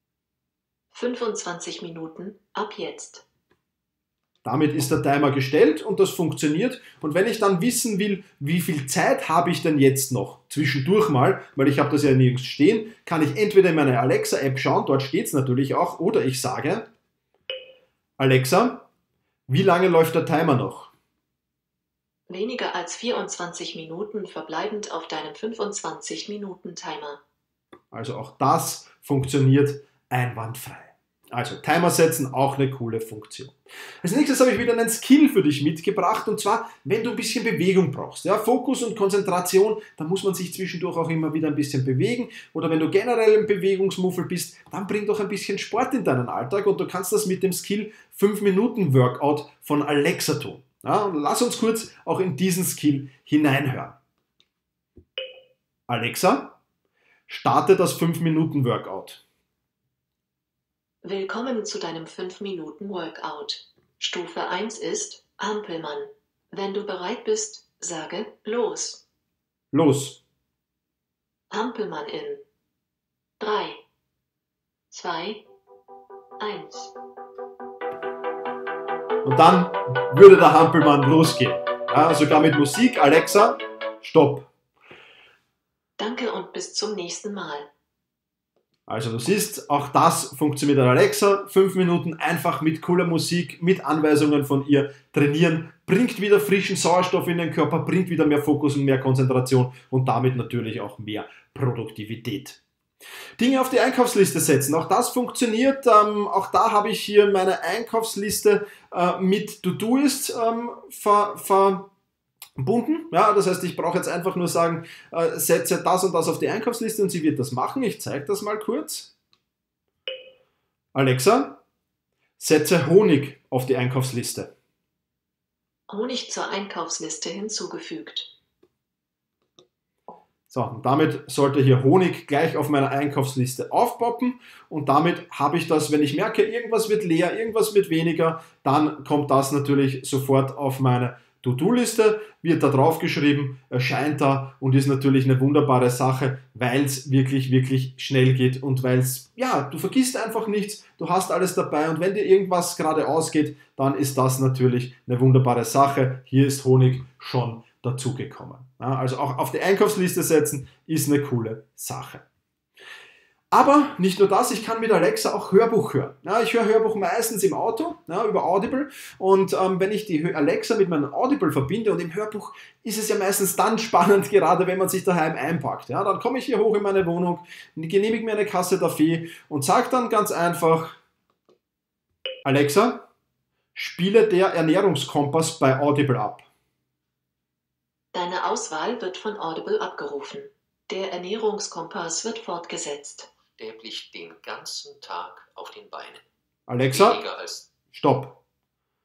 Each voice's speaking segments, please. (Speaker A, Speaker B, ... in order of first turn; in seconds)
Speaker A: 0.9-3.2, 22.3-27.2, 61.0-69.0, 71.5-72.4, 73.4-73.8, 74.9-75.4, 76.4-76.9, 86.0-87.7, 125.9-128.3, 188.1-193.3
Speaker B: 4.4-16.9, 18.2-18.9, 19.5-20.9, 27.9-54.0, 55.9-56.6, 57.3-59.2, 69.7-70.2, 79.2-84.5, 88.9-102.6, 103.4-111.9, 112.6-119.1, 120.9-121.6, 122.4-124.5, 130.5-162.2, 163.5-181.0, 182.4-183.1, 183.8-186.5, 196.7-197.2, 197.9-198.4
Speaker C: 193.6-196.2, 196.9-197.7